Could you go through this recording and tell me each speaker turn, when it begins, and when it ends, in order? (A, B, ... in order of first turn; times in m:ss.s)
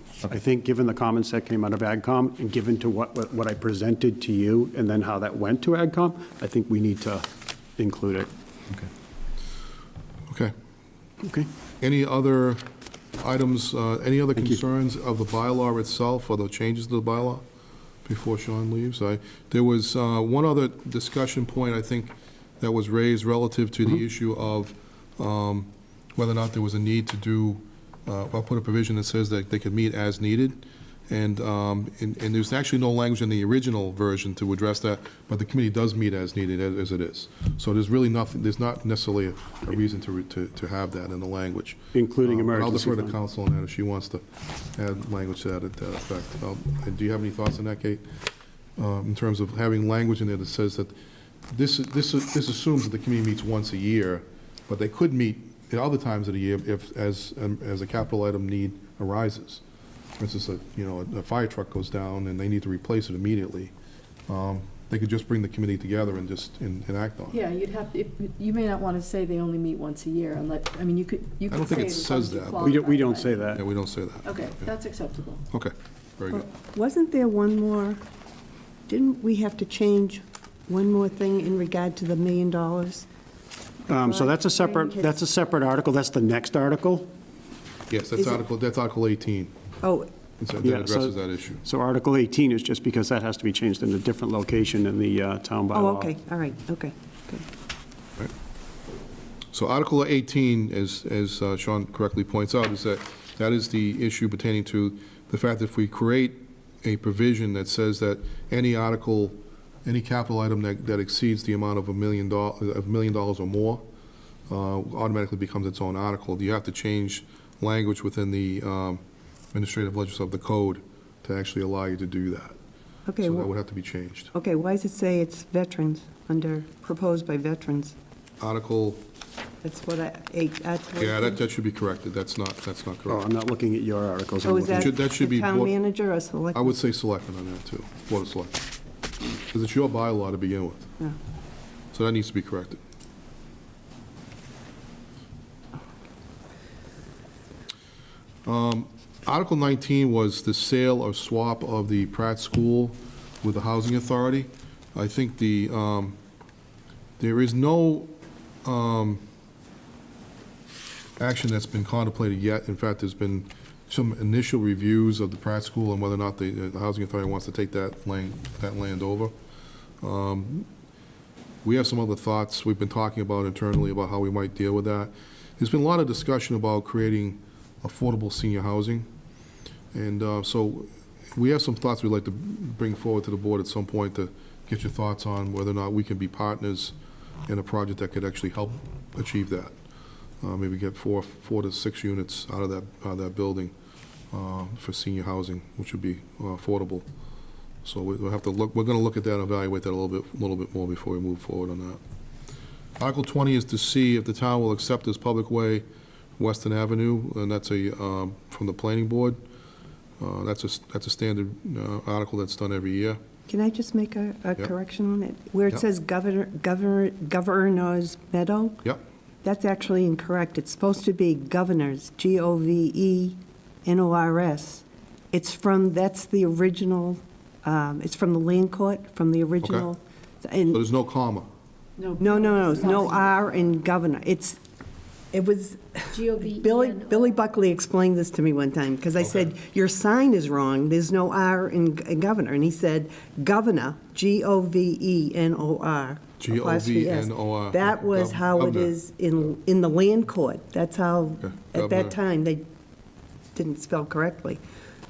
0:00.2-0:08.3 A
0:11.2-0:11.5 A
0:11.8-0:12.6 B
0:13.2-0:17.4 B
0:18.0-0:44.2 B
0:41.9-0:43.2 A
0:44.8-0:48.0 B
0:48.8-0:50.9 B
0:51.5-0:59.6 B
1:00.2-1:03.7 B
1:04.3-1:07.4 B
1:07.3-1:13.6 C
1:11.5-1:12.6 B
1:12.6-1:13.6 A
1:13.6-1:14.2 B
1:14.2-1:15.4 C
1:15.5-1:16.4 B
1:16.3-1:18.0 D
1:18.9-1:23.0 D
1:23.9-1:27.1 A
1:24.2-1:25.1 D
1:27.9-1:29.5 B
1:28.2-1:28.4 D
1:29.8-1:30.1 D
1:30.4-1:31.6 B
1:30.6-1:36.1 A
1:35.7-1:37.4 D
1:39.5-1:53.8 B
1:54.5-1:59.0 B
1:59.5-2:02.6 B
2:03.0-2:03.5 D
2:03.2-2:04.3 B
2:04.3-2:07.9 D
2:08.4-2:09.0 B
2:09.6-2:11.4 D
2:11.0-2:13.3 B
2:13.0-2:14.9 A
2:14.4-2:16.8 D
2:14.7-2:15.8 B
2:16.5-2:18.6 B
2:19.5-2:20.9 B
2:21.9-2:22.8 B
2:28.4-2:36.2 B
2:37.2-2:38.1 B
2:38.6-2:39.2 B
2:41.2-2:49.3 B
2:50.0-2:50.6 B
2:51.6-2:59.1 B
2:59.9-3:06.9 B
3:07.5-3:09.7 B
3:10.4-3:13.7 B
3:14.3-3:17.0 B
3:17.8-3:22.0 B
3:23.0-3:25.8 B
3:26.4-3:29.4 B
3:30.2-3:33.2 B
3:33.5-3:38.8 D
3:39.4-3:50.8 D
3:49.6-3:49.9 B
3:50.7-3:51.5 B
3:52.0-3:53.4 C
3:52.2-3:54.6 D
3:55.3-4:12.6 D
3:56.1-3:57.2 C
4:06.4-4:08.9 B
4:11.4-4:12.1 B
4:13.5-4:14.6 D